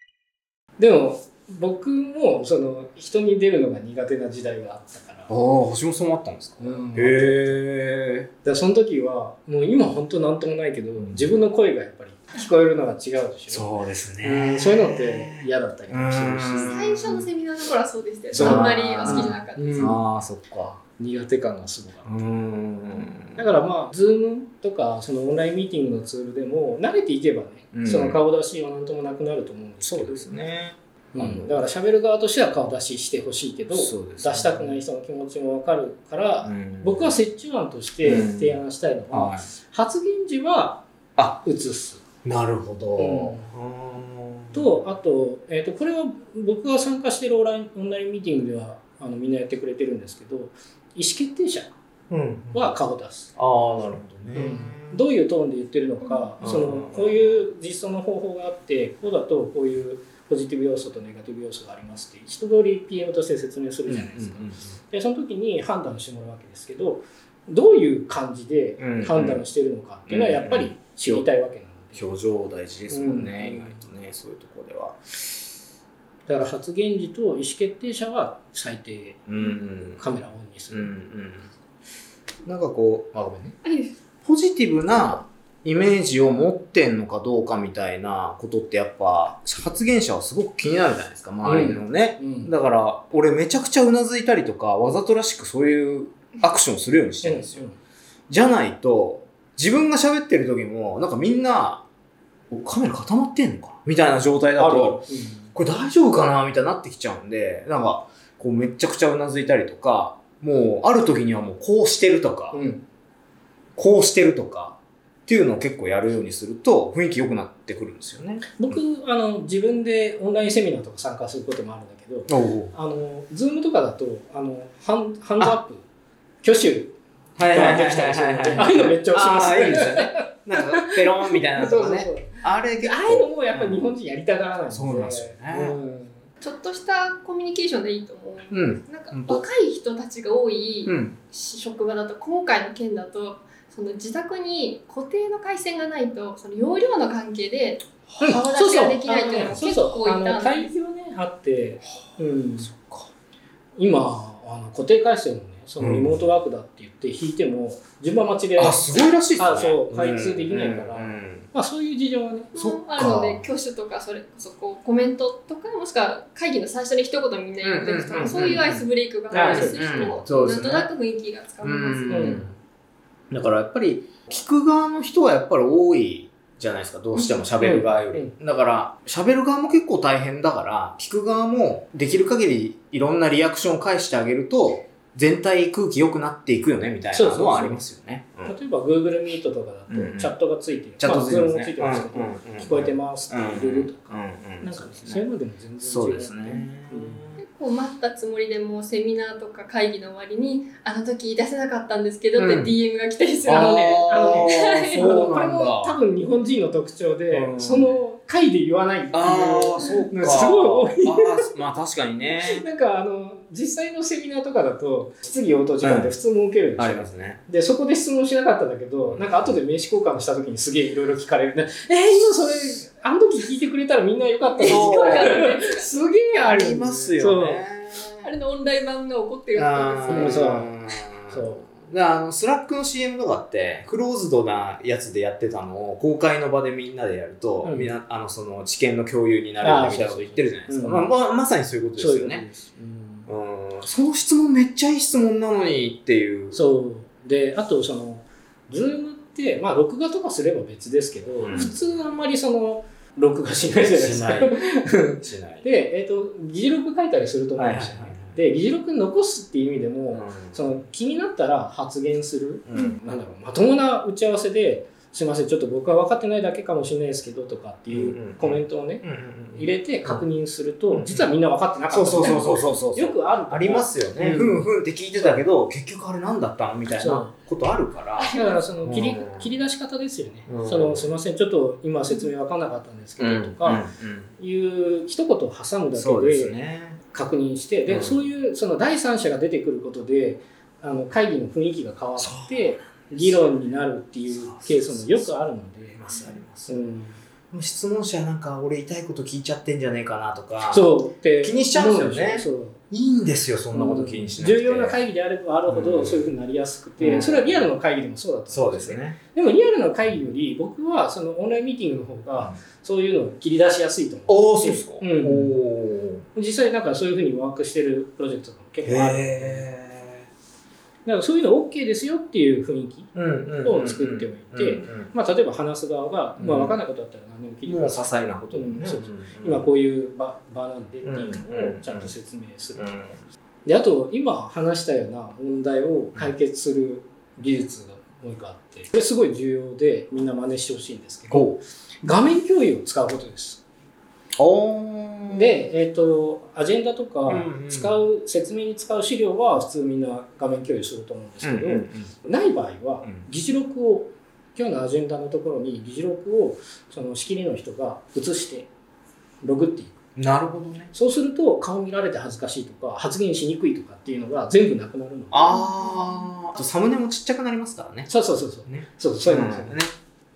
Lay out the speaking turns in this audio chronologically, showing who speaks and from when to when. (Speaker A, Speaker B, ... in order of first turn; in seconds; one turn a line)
Speaker A: 0.8-5.3
Speaker B: 5.3-8.3
Speaker A: 6.6-7.6
Speaker A: 8.4-13.7
Speaker B: 11.0-11.3
Speaker B: 13.5-17.3
Speaker A: 14.2-16.8
Speaker C: 16.7-19.8
Speaker A: 18.3-20.0
Speaker B: 18.4-20.8
Speaker A: 21.0-22.1
Speaker B: 22.1-23.4
Speaker A: 23.3-30.3
Speaker B: 27.7-28.2
Speaker B: 29.8-31.6
Speaker A: 31.1-40.9
Speaker B: 33.7-34.8
Speaker B: 36.4-37.2
Speaker B: 38.0-38.6
Speaker B: 39.1-39.5
Speaker A: 41.4-42.0
Speaker B: 42.2-44.6
Speaker A: 43.0-43.5
Speaker A: 44.5-51.8
Speaker B: 52.1-52.7
Speaker A: 52.5-53.3
Speaker B: 53.4-55.0
Speaker A: 54.3-72.1
Speaker B: 56.4-57.4
Speaker B: 63.9-64.7
Speaker B: 68.8-69.5
Speaker B: 70.1-71.3
Speaker B: 72.0-75.5
Speaker A: 72.9-73.8
Speaker A: 76.3-79.2
Speaker B: 79.3-80.1
Speaker A: 80.0-80.9
Speaker B: 80.7-81.5
Speaker B: 82.5-83.6
Speaker C: 83.6-83.9
Speaker B: 84.2-97.6
Speaker A: 91.4-92.5
Speaker A: 97.2-97.8
Speaker B: 98.3-101.8
Speaker B: 102.5-112.6
Speaker A: 104.6-105.5
Speaker A: 112.5-112.8
Speaker B: 113.8-118.8
Speaker A: 118.5-125.8
Speaker B: 122.3-122.7
Speaker A: 126.4-127.0
Speaker B: 127.4-133.9
Speaker A: 127.5-136.2
Speaker B: 134.7-135.8
Speaker C: 136.4-150.7
Speaker B: 138.5-139.4
Speaker B: 140.9-141.2
Speaker A: 148.2-152.8
Speaker B: 152.6-153.1
Speaker A: 153.8-162.5
Speaker B: 155.8-156.2
Speaker B: 158.6-161.5
Speaker C: 162.5-172.4
Speaker B: 162.6-163.5
Speaker B: 167.6-170.9
Speaker A: 169.3-170.1
Speaker B: 171.6-172.6
Speaker A: 172.1-172.5
Speaker B: 173.3-188.6
Speaker A: 177.6-178.3
Speaker A: 187.1-187.8
Speaker A: 188.5-197.3
Speaker B: 189.9-190.4
Speaker B: 191.0-195.2
Speaker B: 195.8-197.4
Speaker C: 197.4-205.3
Speaker B: 202.4-202.7
Speaker B: 203.4-206.0
Speaker A: 204.0-211.5
Speaker B: 207.3-207.9
Speaker B: 209.1-212.7
Speaker A: 212.3-227.7
Speaker B: 215.8-216.2
Speaker B: 216.8-217.4
Speaker B: 219.1-219.5
Speaker C: 224.6-226.0
Speaker B: 224.6-225.5
Speaker B: 226.4-228.3
Speaker C: 228.2-230.6
Speaker B: 229.6-242.5
Speaker A: 230.1-230.7
Speaker A: 231.3-231.6
Speaker A: 237.6-237.9
Speaker A: 239.6-241.1
Speaker A: 242.0-243.3
Speaker B: 243.3-246.6
Speaker A: 246.5-274.7
Speaker B: 251.4-251.7
Speaker B: 253.9-254.7
Speaker B: 255.2-255.6
Speaker B: 257.6-258.3
Speaker B: 260.1-260.6
Speaker B: 262.7-263.0
Speaker B: 267.9-270.2
Speaker B: 270.9-271.3
Speaker B: 271.9-279.5
Speaker A: 276.9-277.3
Speaker C: 278.2-278.6
Speaker A: 278.4-283.9
Speaker B: 280.5-281.1
Speaker B: 283.2-284.3
Speaker A: 284.4-296.0
Speaker B: 285.9-287.0
Speaker B: 287.9-288.2
Speaker B: 292.2-293.4
Speaker B: 294.3-295.3
Speaker B: 295.9-296.8
Speaker A: 296.7-297.2
Speaker B: 297.5-305.0
Speaker A: 300.7-302.8
Speaker A: 303.7-315.6
Speaker B: 305.7-306.3
Speaker B: 307.0-307.7
Speaker B: 308.5-309.2
Speaker B: 314.3-316.2
Speaker A: 316.4-319.7
Speaker B: 318.9-320.3
Speaker A: 321.1-323.1
Speaker B: 323.1-325.1
Speaker A: 323.6-333.1
Speaker B: 326.4-326.8
Speaker B: 327.7-329.7
Speaker B: 331.1-332.1
Speaker B: 332.8-333.2
Speaker A: 333.6-341.5
Speaker B: 341.3-341.6
Speaker A: 342.0-343.6
Speaker B: 344.4-345.7
Speaker A: 345.3-358.7
Speaker B: 347.3-348.0
Speaker B: 351.4-352.1
Speaker A: 359.4-360.0
Speaker B: 360.2-360.9
Speaker A: 360.9-365.7
Speaker B: 365.3-368.1
Speaker A: 368.1-369.8
Speaker B: 368.6-369.9